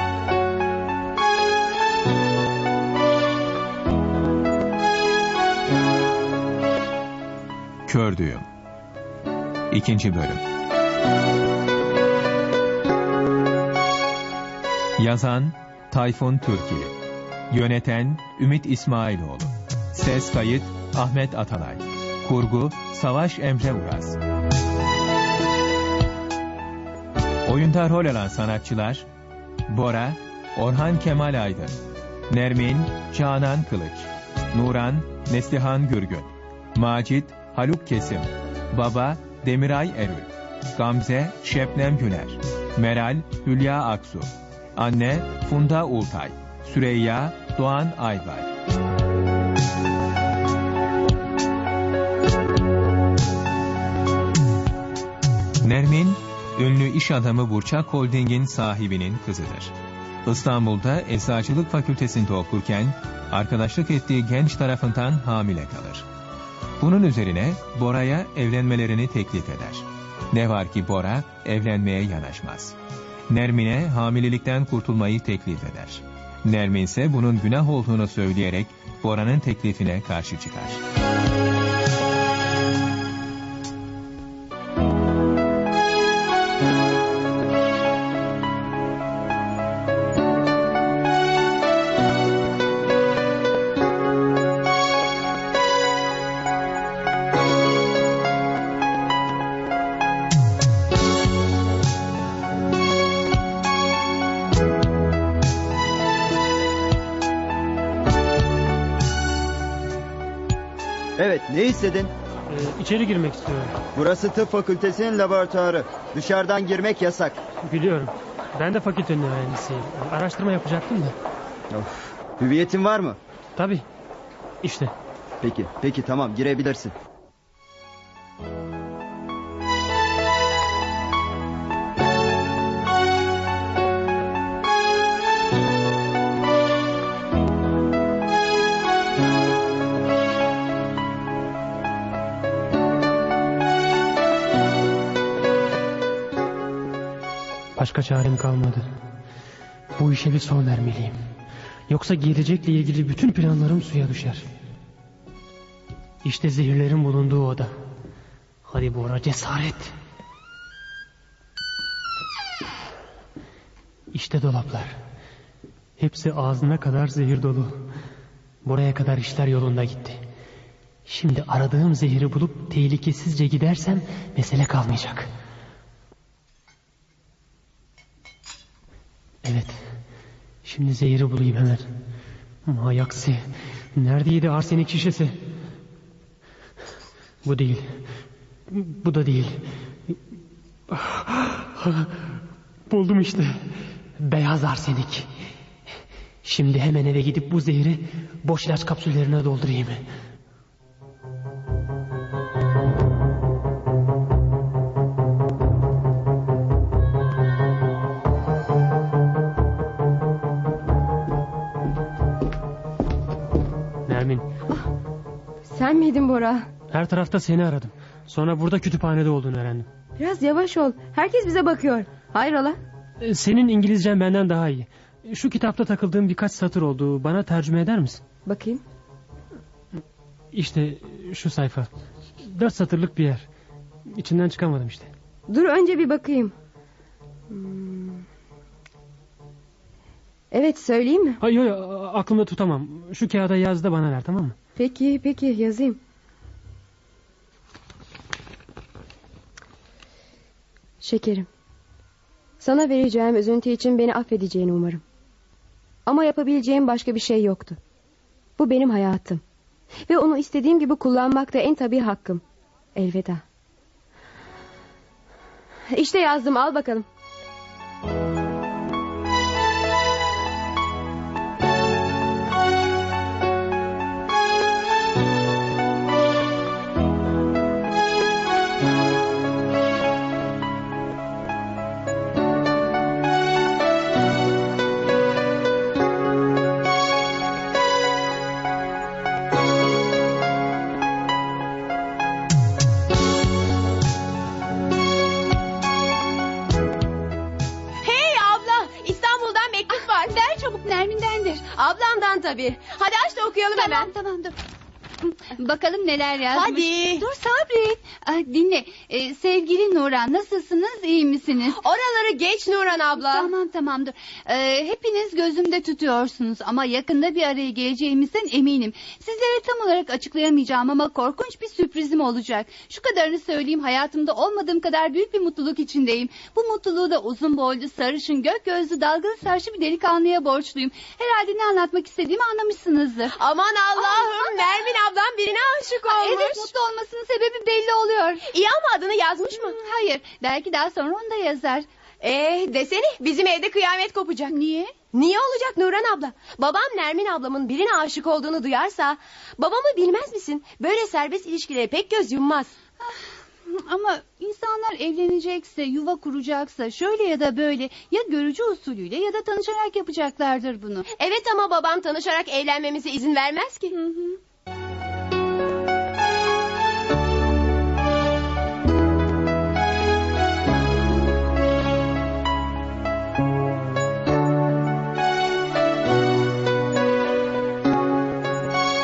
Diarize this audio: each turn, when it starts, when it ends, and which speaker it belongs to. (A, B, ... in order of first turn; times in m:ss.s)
0:07.9-0:08.5 A
0:09.7-0:10.4 A
0:15.0-0:16.9 A
0:17.5-0:24.2 A
0:27.5-0:29.1 A
0:29.7-0:31.8 A
0:32.3-0:48.5 A
0:55.6-0:59.7 A
1:00.3-1:06.1 A
1:06.8-1:12.8 A
1:13.3-1:20.8 A
1:51.2-1:52.1 B
1:52.5-1:53.8 C
1:54.0-1:57.4 B
1:57.6-2:01.2 C
2:01.7-2:03.2 B
2:03.6-2:03.8 C
2:04.6-2:04.9 C
2:05.4-2:06.9 B
2:27.8-2:28.8 C
2:30.0-2:31.2 C
2:31.9-2:34.4 C
2:36.2-2:37.7 C
2:38.7-2:39.9 C
2:44.1-2:45.0 C
2:46.0-2:47.8 C
2:48.6-2:50.2 C
2:51.1-2:55.3 C
2:59.4-2:59.9 C
3:00.6-3:01.9 C
3:02.7-3:03.4 C
3:04.0-3:05.4 C
3:07.4-3:07.9 C
3:08.7-3:10.1 C
3:10.9-3:12.3 C
3:12.9-3:13.5 C
3:14.2-3:15.3 C
3:16.4-3:20.0 C
3:34.1-3:34.5 C
3:35.7-3:36.7 D
3:36.9-3:39.9 C
3:40.2-3:42.8 D
3:43.2-3:48.2 C
3:48.5-3:48.8 D
3:50.5-3:51.9 C
3:52.4-3:53.5 C
3:54.1-3:55.1 C
3:55.5-3:56.5 D
3:57.5-3:58.2 D
4:00.5-4:01.4 D
4:01.4-4:04.6 C
4:04.8-4:06.0 D
4:11.0-4:11.5 D
4:12.6-4:15.0 D
4:16.1-4:17.8 D
4:18.6-4:19.4 D
4:20.1-4:22.4 D
4:23.0-4:23.4 D
4:25.9-4:27.0 D
4:58.0-5:00.4 D
5:00.2-5:01.6 E
5:01.7-5:04.1 D
5:03.8-5:04.6 E
5:05.2-5:11.8 E
5:06.5-5:07.2 D
5:11.7-5:13.5 D
5:13.2-5:33.3 E
5:33.3-5:36.7 D
5:34.0-5:34.4 E
5:36.1-5:38.4 E
5:38.5-5:39.8 D
5:39.6-5:41.9 E
5:42.2-5:44.6 D
5:44.5-5:44.9 E
5:45.1-5:52.7 D
5:53.7-6:01.1 E
6:01.2-6:04.0 D
6:04.0-6:04.4 E